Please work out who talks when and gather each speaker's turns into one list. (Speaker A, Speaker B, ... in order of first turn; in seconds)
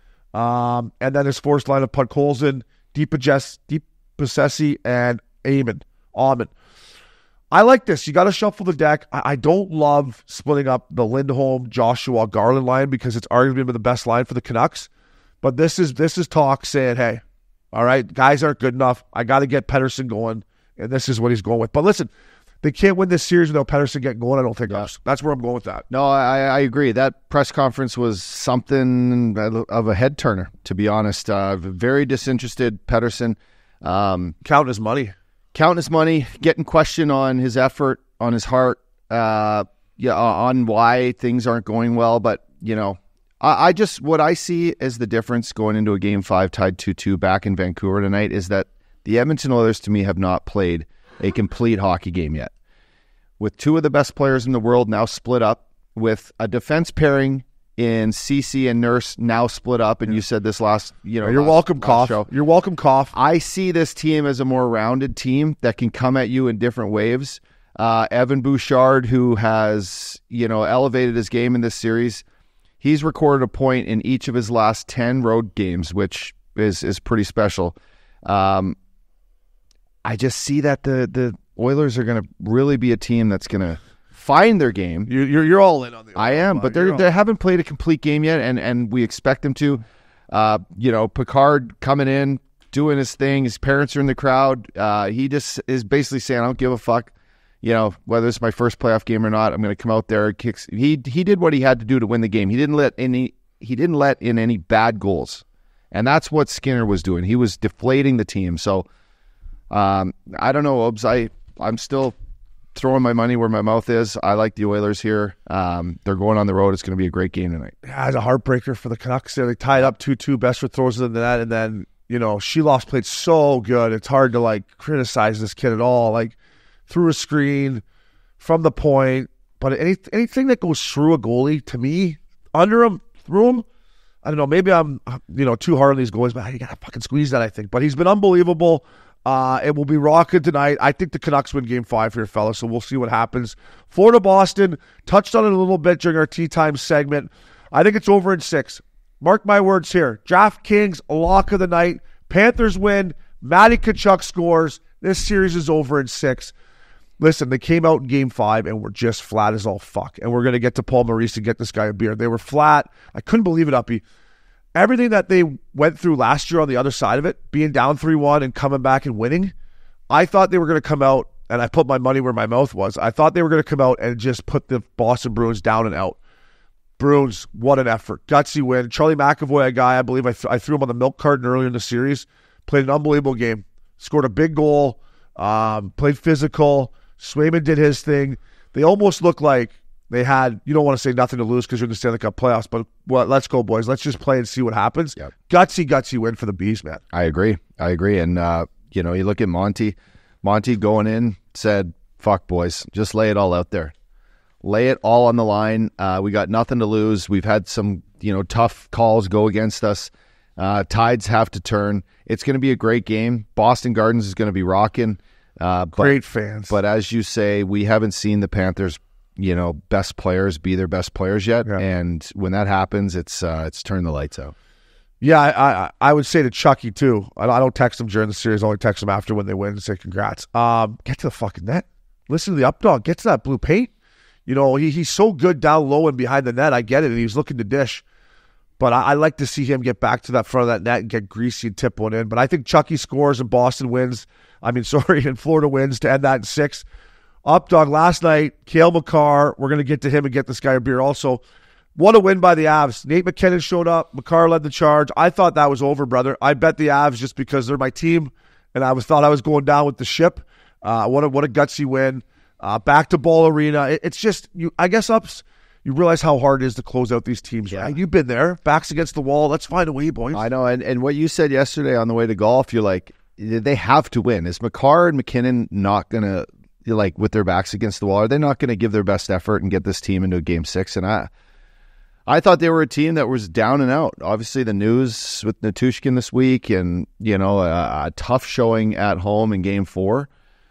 Speaker A: 0.3-6.5, 7.5-14.9, 15.4-17.2, 17.7-22.1, 22.6-25.9, 34.4-35.1, 61.2-63.1, 85.1-87.1, 117.8-126.3, 126.9-127.8, 128.4-133.7, 134.2-156.5, 157.2-164.0, 164.8-169.5, 170.1-176.2, 177.0-197.0, 216.0-216.7, 225.2-233.9, 234.5-238.0, 238.8-246.8, 247.4-251.4, 252.0-270.4
Speaker B: 25.9-34.4, 35.5-52.5, 53.4-62.3, 63.1-72.2, 72.8-78.8, 80.0-85.1, 86.2-108.9, 109.7-112.2, 112.7-117.8, 197.1-203.9, 204.6-216.2, 216.7-224.5, 270.3-281.3, 282.3-290.3